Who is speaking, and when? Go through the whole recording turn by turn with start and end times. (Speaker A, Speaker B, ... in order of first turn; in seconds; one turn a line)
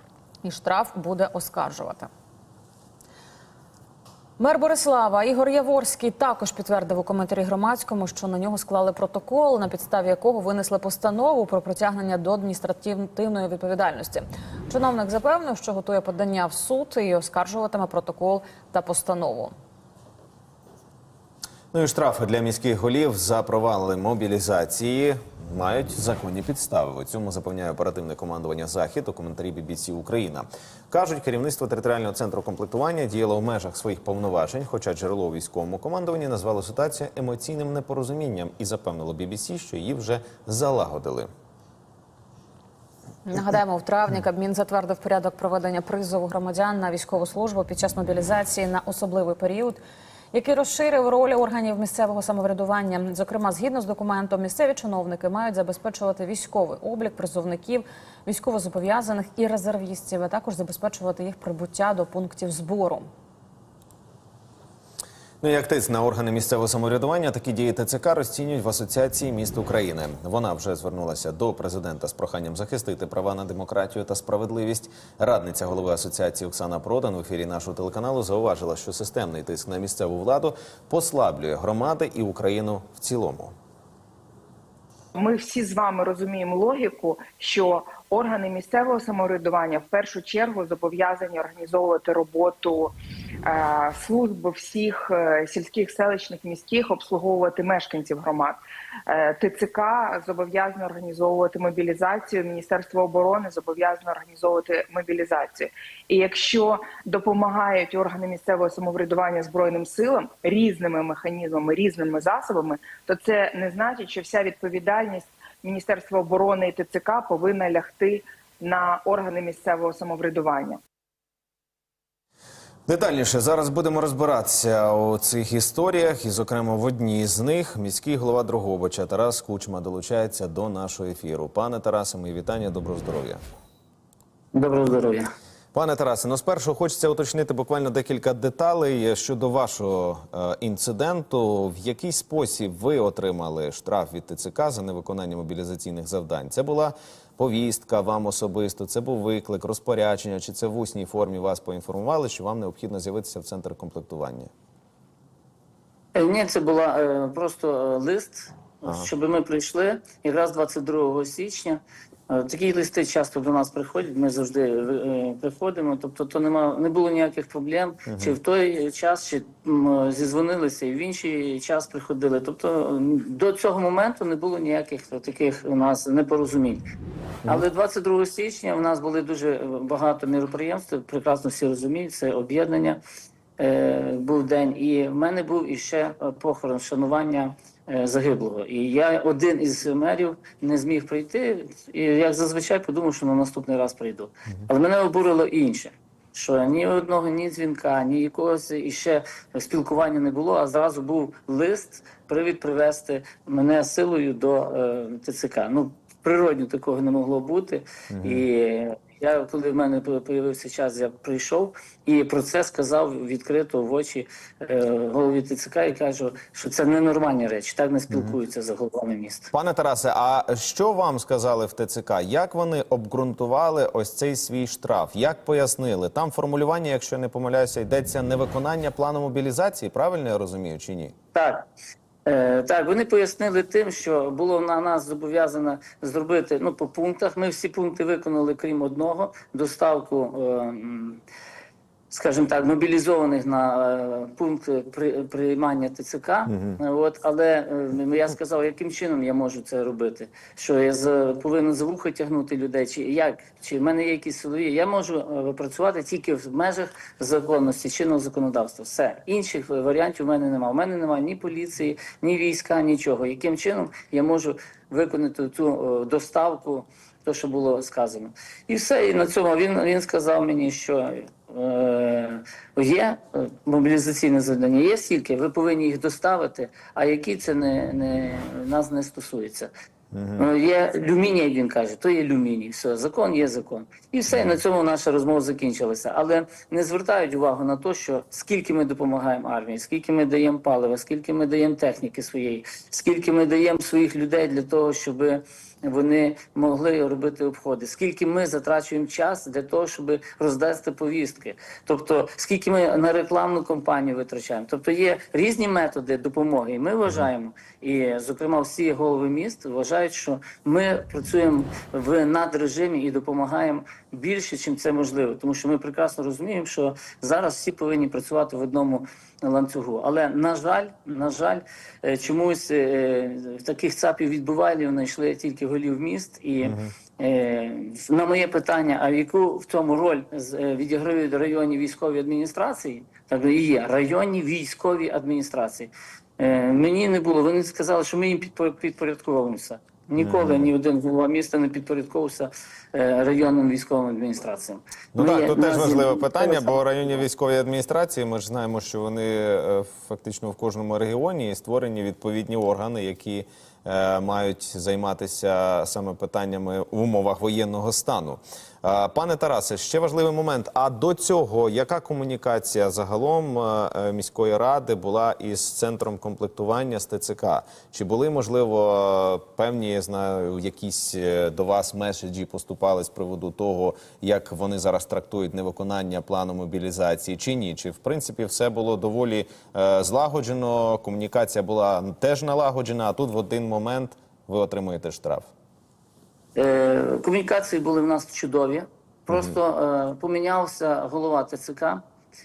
Speaker A: 0.4-2.1
Speaker A: 4.4-19.5
Speaker B: 21.7-41.3
Speaker A: 43.2-49.8
Speaker A: 50.3-63.1
Speaker B: 65.4-83.5
Speaker C: 85.1-120.8
Speaker B: 122.9-133.4
Speaker D: 134.5-135.3
Speaker B: 135.7-154.5
Speaker D: 156.1-176.8
Speaker B: 168.1-168.3
Speaker D: 177.4-183.0
Speaker D: 183.6-219.5
Speaker B: 208.1-208.4
Speaker B: 218.1-218.3
Speaker B: 219.5-231.1
Speaker D: 231.3-231.7
Speaker D: 232.2-241.2
Speaker D: 242.1-279.7
Speaker B: 246.5-246.8
Speaker B: 280.1-280.5
Speaker D: 280.4-346.8
Speaker B: 284.3-284.6
Speaker B: 326.6-326.9
Speaker B: 340.2-340.7
Speaker B: 345.1-385.5
Speaker D: 386.5-392.0
Speaker B: 389.3-389.6